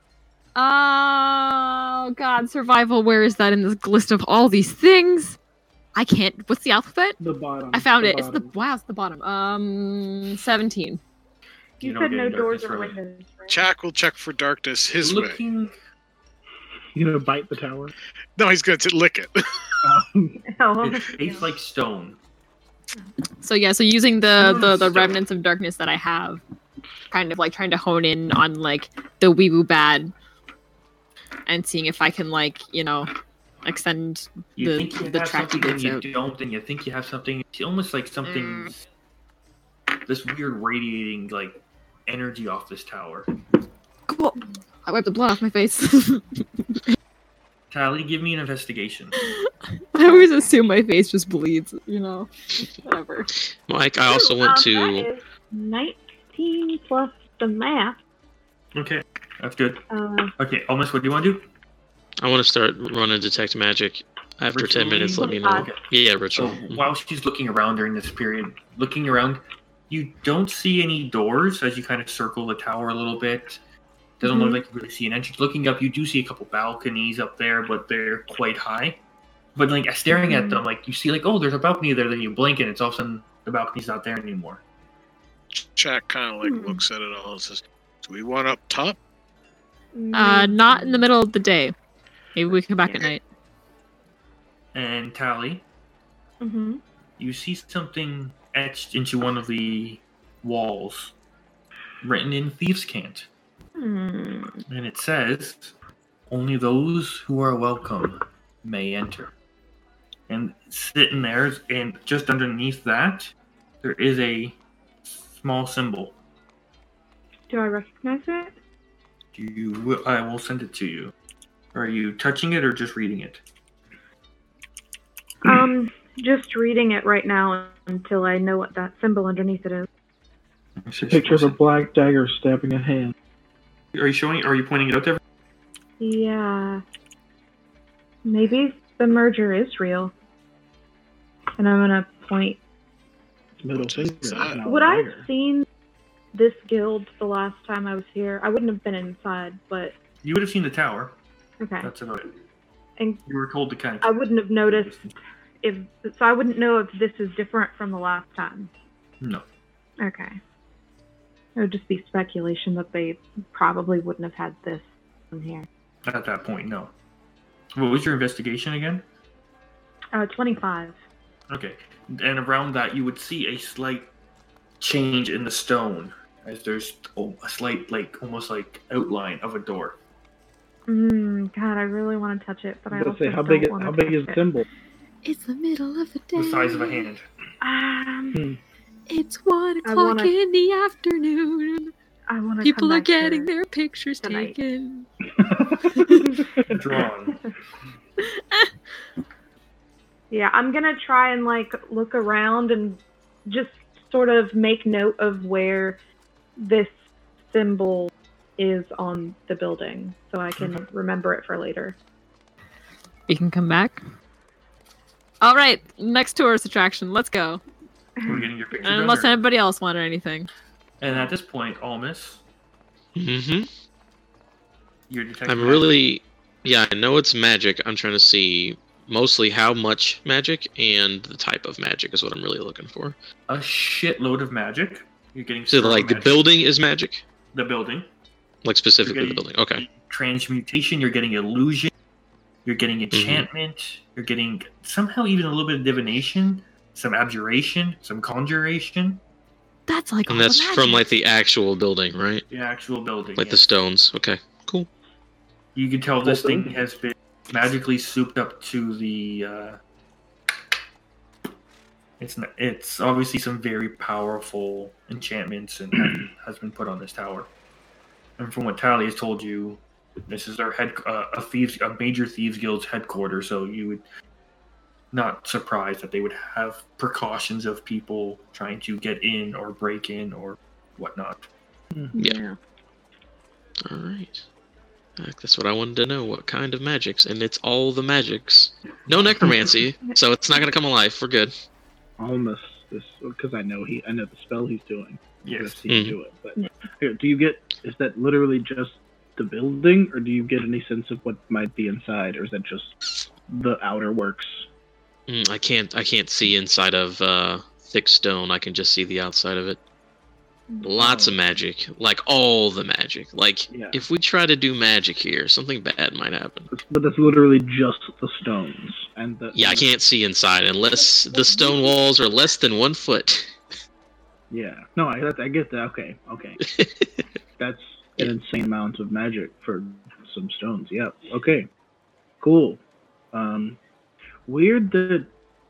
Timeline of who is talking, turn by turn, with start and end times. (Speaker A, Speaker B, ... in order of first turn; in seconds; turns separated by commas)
Speaker A: 0.6-5.4, Speaker A: 6.0-7.2, Speaker B: 7.2-8.5, Speaker A: 7.7-11.0, Speaker C: 11.8-13.6, Speaker D: 11.8-13.0, Speaker E: 13.5-15.4, Speaker D: 15.0-15.7, Speaker B: 16.9-17.9, Speaker E: 18.4-19.5, Speaker B: 19.8-20.4, Speaker C: 20.4-21.5, Speaker D: 20.8-22.2, Speaker A: 23.4-26.4, Speaker D: 24.6-25.1, Speaker A: 27.1-30.1, Speaker A: 31.5-33.1, Speaker A: 33.6-36.0, Speaker D: 34.6-38.8, Speaker A: 38.2-38.7, Speaker D: 40.1-43.3, Speaker A: 44.1-46.8, Speaker D: 47.7-49.2, Speaker A: 49.2-53.3, Speaker C: 50.0-50.5, Speaker F: 53.7-55.1, Speaker C: 54.1-58.0, Speaker D: 58.8-59.8, Speaker C: 59.9-60.3, Speaker D: 60.4-61.5, Speaker F: 62.2-66.8, Speaker D: 64.5-73.6, Speaker C: 65.2-65.7, Speaker C: 74.2-74.6, Speaker D: 74.2-79.0, Speaker D: 79.5-84.6, Speaker C: 80.1-80.6, Speaker E: 85.5-89.0, Speaker C: 86.4-86.8, Speaker C: 90.0-91.0, Speaker A: 90.1-91.7, Speaker A: 92.3-93.2, Speaker D: 94.7-95.6, Speaker C: 96.4-96.8, Speaker D: 97.2-101.2, Speaker D: 102.0-103.3, Speaker C: 103.8-104.6, Speaker D: 104.7-105.8, Speaker D: 106.3-109.3, Speaker D: 110.3-116.2, Speaker C: 117.5-118.5, Speaker D: 119.3-121.1, Speaker D: 121.7-123.4, Speaker C: 125.4-129.9, Speaker D: 130.8-131.6, Speaker B: 131.0-133.1, Speaker D: 133.9-135.2, Speaker C: 136.0-136.8, Speaker C: 138.2-140.1, Speaker C: 141.6-142.6, Speaker B: 143.6-145.3, Speaker E: 143.7-144.6, Speaker C: 144.6-145.7, Speaker C: 146.3-149.9, Speaker D: 150.2-151.2, Speaker C: 151.6-151.9, Speaker D: 151.8-152.3, Speaker D: 153.3-155.2, Speaker C: 154.0-155.0, Speaker C: 155.6-158.7, Speaker C: 160.0-160.4, Speaker C: 161.6-165.7, Speaker D: 166.1-166.9, Speaker D: 167.8-169.1, Speaker C: 170.1-171.0, Speaker D: 171.5-174.1, Speaker D: 174.8-180.0, Speaker C: 180.9-184.4, Speaker B: 182.9-184.7, Speaker A: 185.2-187.1, Speaker D: 186.3-187.3, Speaker C: 187.6-188.4, Speaker B: 188.3-188.6, Speaker A: 189.1-191.9, Speaker C: 189.8-190.3, Speaker C: 192.3-193.5, Speaker A: 192.6-195.1, Speaker C: 194.2-194.6, Speaker B: 195.4-196.8, Speaker A: 196.0-196.3, Speaker C: 196.2-196.4, Speaker D: 196.7-197.4, Speaker A: 198.2-198.7, Speaker C: 200.3-206.0, Speaker C: 206.6-206.9, Speaker C: 207.4-212.0, Speaker A: 213.3-214.0, Speaker A: 215.4-217.6, Speaker C: 218.2-218.4, Speaker D: 218.3-219.3, Speaker A: 218.8-220.5, Speaker D: 221.0-222.4, Speaker F: 223.2-223.7, Speaker D: 225.1-226.0, Speaker F: 225.5-233.2, Speaker D: 233.5-236.4, Speaker F: 235.7-237.2, Speaker D: 237.5-238.1, Speaker F: 238.6-239.8, Speaker D: 239.0-241.9, Speaker D: 242.7-249.2, Speaker F: 243.2-243.4, Speaker A: 249.9-251.0, Speaker F: 250.3-252.4, Speaker D: 252.5-253.6, Speaker F: 253.4-254.9, Speaker D: 255.8-259.8, Speaker B: 256.2-256.8, Speaker D: 262.2-267.5, Speaker D: 268.4-274.1, Speaker D: 275.1-281.5, Speaker C: 282.1-282.6, Speaker F: 282.2-282.4, Speaker F: 283.9-284.5, Speaker F: 285.2-291.5, Speaker B: 292.2-304.7, Speaker D: 295.4-295.8, Speaker F: 295.9-296.2, Speaker F: 305.3-309.8, Speaker F: 310.8-316.7, Speaker B: 311.0-311.4, Speaker B: 313.7-314.0, Speaker B: 316.7-319.9, Speaker F: 319.5-323.6, Speaker C: 321.3-321.8, Speaker B: 324.5-326.6, Speaker F: 326.6-327.2, Speaker B: 327.6-331.7, Speaker B: 332.4-332.8, Speaker B: 333.3-333.8, Speaker B: 334.5-335.3